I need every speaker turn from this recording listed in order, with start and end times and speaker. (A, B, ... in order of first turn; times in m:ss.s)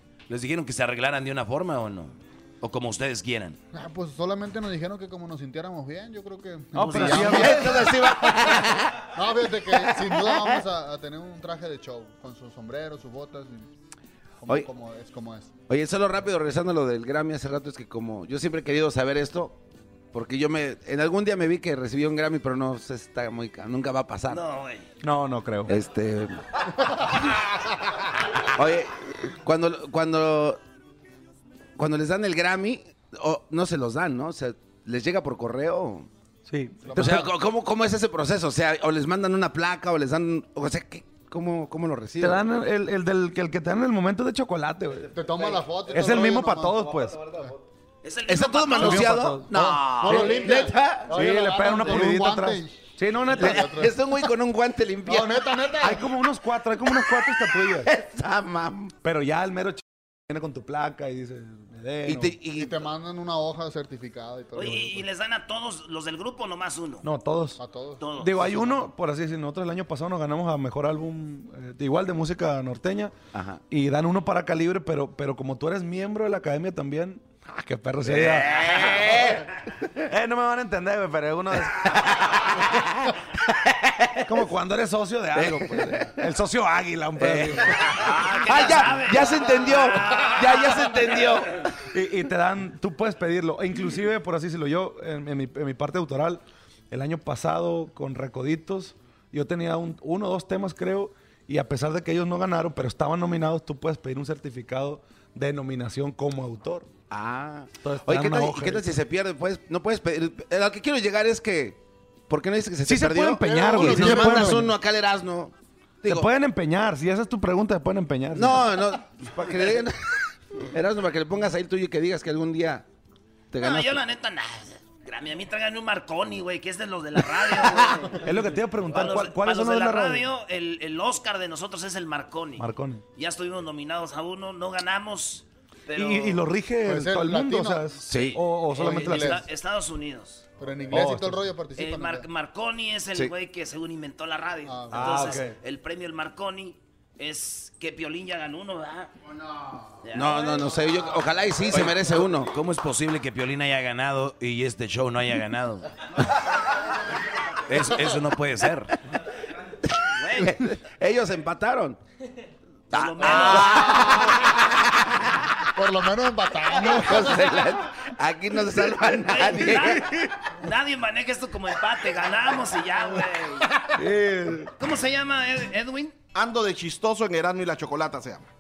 0:00.3-0:03.6 A
0:03.7-0:08.5 B
0:06.8-0:07.6 C
0:06.9-0:08.9 D
0:09.2-0:13.7 B
0:14.4-0:15.5 B
0:15.7-0:19.6 D
0:20.1-0:24.4 D
0:24.3-0:24.9 E
0:25.0-0:25.8 C
0:25.7-0:26.4 D
0:28.4-0:30.6 D
0:31.8-0:36.1 D
0:36.5-0:37.3 C
0:36.8-0:37.2 B
0:36.9-0:42.4 D
0:42.2-0:45.1 C
0:45.0-0:47.6 B
0:45.9-0:47.2 C
0:48.0-0:49.1 E
0:48.3-0:51.2 D
0:48.8-0:49.5 C
0:49.5-0:54.0 B
0:49.6-0:50.2 A
0:51.1-0:53.7 C
0:53.4-0:55.8 D
0:55.0-0:56.1 B
0:55.8-0:57.9 C
0:57.8-0:58.9 D
0:59.0-1:02.4 C
1:02.0-1:02.8 D
1:02.5-1:05.0 B
1:04.6-1:07.1 E
1:07.0-1:07.6 C
1:07.6-1:08.7 B
1:08.0-1:08.4 E
1:08.2-1:13.1 C
1:13.7-1:18.9 C
1:18.0-1:19.4 D
1:20.1-1:22.3 C
1:24.2-1:27.8 C
1:25.4-1:26.1 D
1:27.2-1:31.6 D
1:28.0-1:31.1 E
1:31.9-1:46.9 C
1:47.1-1:56.3 D
1:47.8-1:48.9 C
1:52.8-1:54.7 C
1:53.5-1:54.6 B
1:56.0-1:58.8 C
1:58.3-2:00.0 D
2:00.7-2:02.8 D
2:03.5-2:04.0 D
2:03.6-2:08.2 E
2:08.2-2:10.2 C
2:08.9-2:16.4 E
2:12.6-2:13.0 C
2:16.0-2:19.4 C
2:16.8-2:17.9 B
2:18.1-2:18.4 D
2:18.1-2:20.4 E
2:18.8-2:19.4 B
2:20.6-2:22.3 B
2:20.9-2:21.4 C
2:21.8-2:29.1 E
2:24.7-2:25.0 B
2:24.9-2:25.6 C
2:30.0-2:30.7 E
2:30.1-2:32.5 D
2:31.7-2:35.9 A
2:37.7-2:38.9 A
2:40.2-2:40.6 E
2:40.3-2:42.0 D
2:42.9-2:44.1 E
2:42.9-2:45.2 D
2:45.8-2:47.6 B
2:46.8-2:50.0 D
2:49.2-2:50.1 E
2:50.6-2:53.7 E
2:54.0-2:54.7 C
2:54.8-2:56.2 E
2:56.3-2:58.5 F